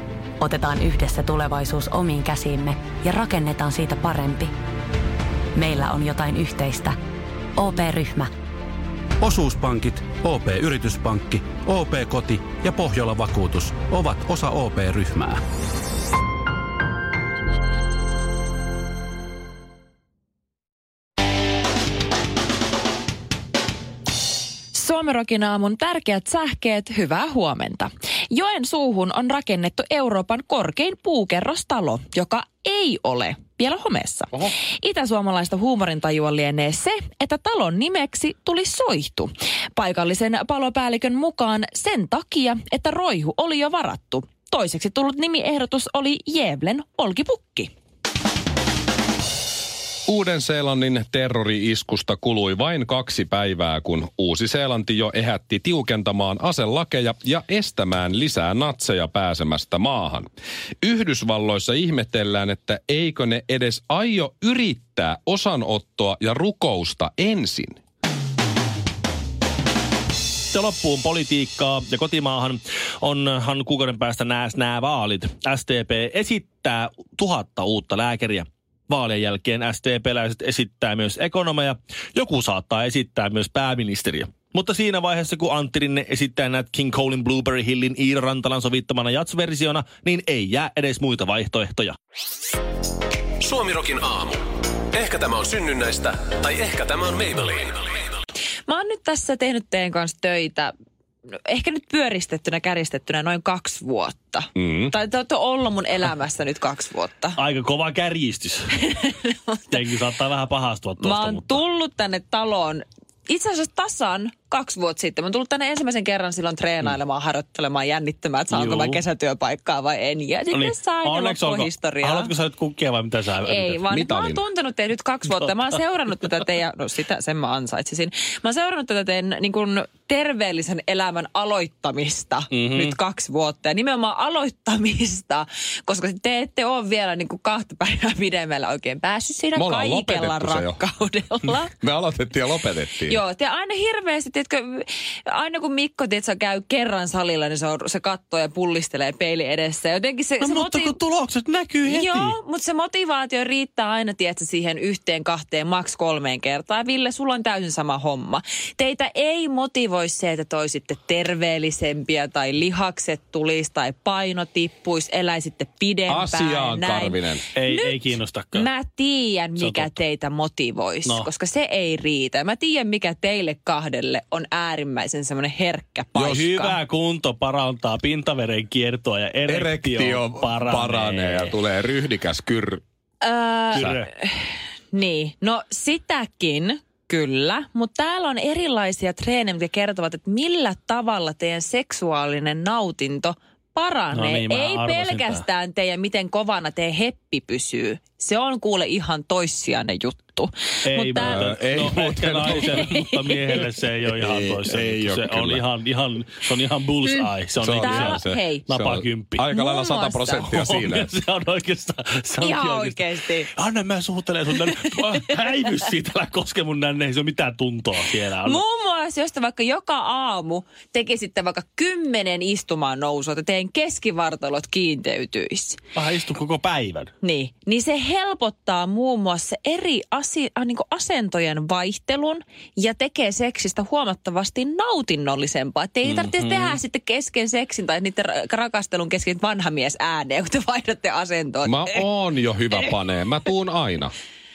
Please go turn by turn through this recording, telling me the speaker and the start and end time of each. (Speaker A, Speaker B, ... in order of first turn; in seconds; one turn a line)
Speaker A: 0.4-4.5
Speaker A: 5.5-7.0
Speaker A: 7.6-8.3
Speaker B: 9.2-15.4
Speaker C: 24.7-47.7
Speaker D: 50.1-60.3
Speaker D: 60.8-67.8
Speaker E: 70.5-92.0
Speaker F: 93.4-97.9
Speaker C: 98.7-100.7
Speaker C: 101.5-107.4
Speaker D: 104.6-104.9
Speaker E: 107.4-108.7
Speaker C: 108.8-109.8
Speaker E: 109.7-111.6
Speaker C: 111.0-122.3
Speaker E: 118.5-119.0
Speaker E: 120.5-123.8
Speaker C: 123.4-141.7
Speaker D: 123.9-124.4
Speaker E: 132.5-132.9
Speaker D: 139.6-140.8
Speaker D: 141.8-143.2
Speaker C: 143.1-151.0
Speaker E: 150.4-152.4
Speaker C: 151.9-168.0
Speaker D: 166.1-167.4
Speaker E: 167.6-168.7
Speaker C: 168.5-176.8
Speaker E: 169.6-169.9
Speaker E: 176.2-181.5
Speaker D: 179.4-182.8
Speaker C: 183.2-201.5
Speaker E: 183.7-184.1
Speaker E: 194.1-195.4
Speaker E: 200.8-209.4
Speaker D: 201.2-202.9
Speaker C: 202.5-203.4
Speaker D: 204.1-205.6
Speaker D: 207.6-211.1
Speaker C: 207.8-208.7
Speaker C: 209.5-210.5
Speaker E: 210.5-218.6
Speaker C: 212.4-213.5
Speaker C: 214.6-215.2
Speaker C: 218.4-225.8
Speaker E: 225.9-227.1
Speaker C: 227.2-242.1
Speaker E: 236.1-236.8
Speaker D: 241.6-244.1